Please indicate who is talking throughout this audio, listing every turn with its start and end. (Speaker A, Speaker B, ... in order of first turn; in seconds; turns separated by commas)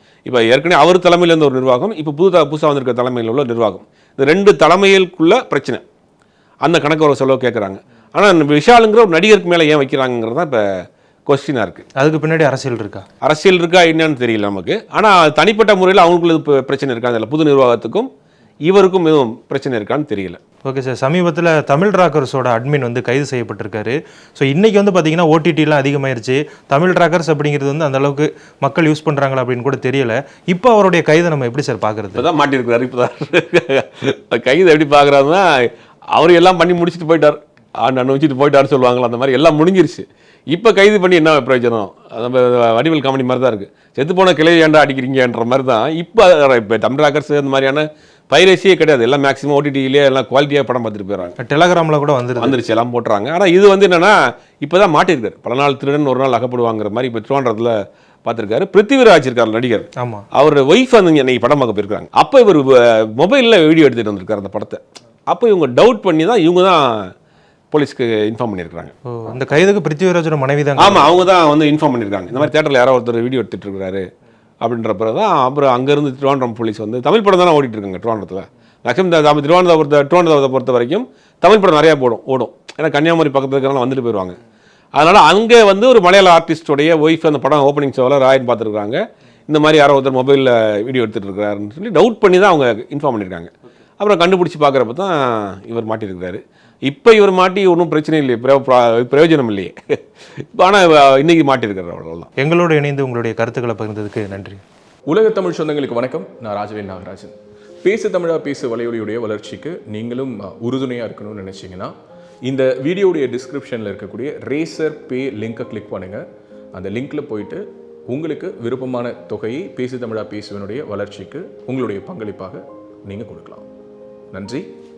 Speaker A: 0.2-5.8, Speaker A: 6.6-10.7, Speaker A: 11.3-11.8, Speaker B: 12.0-13.1, Speaker A: 13.2-18.1, Speaker A: 18.7-20.4, Speaker B: 20.6-32.2, Speaker A: 32.1-51.3, Speaker B: 51.4-52.6, Speaker A: 52.4-67.1, Speaker B: 60.0-60.2, Speaker A: 67.7-68.9, Speaker B: 69.1-71.1, Speaker A: 70.8-74.0, Speaker A: 74.6-84.3, Speaker A: 85.0-100.0, Speaker A: 100.5-102.3, Speaker B: 102.4-104.6, Speaker C: 105.1-111.9, Speaker C: 112.5-123.7, Speaker C: 124.3-124.7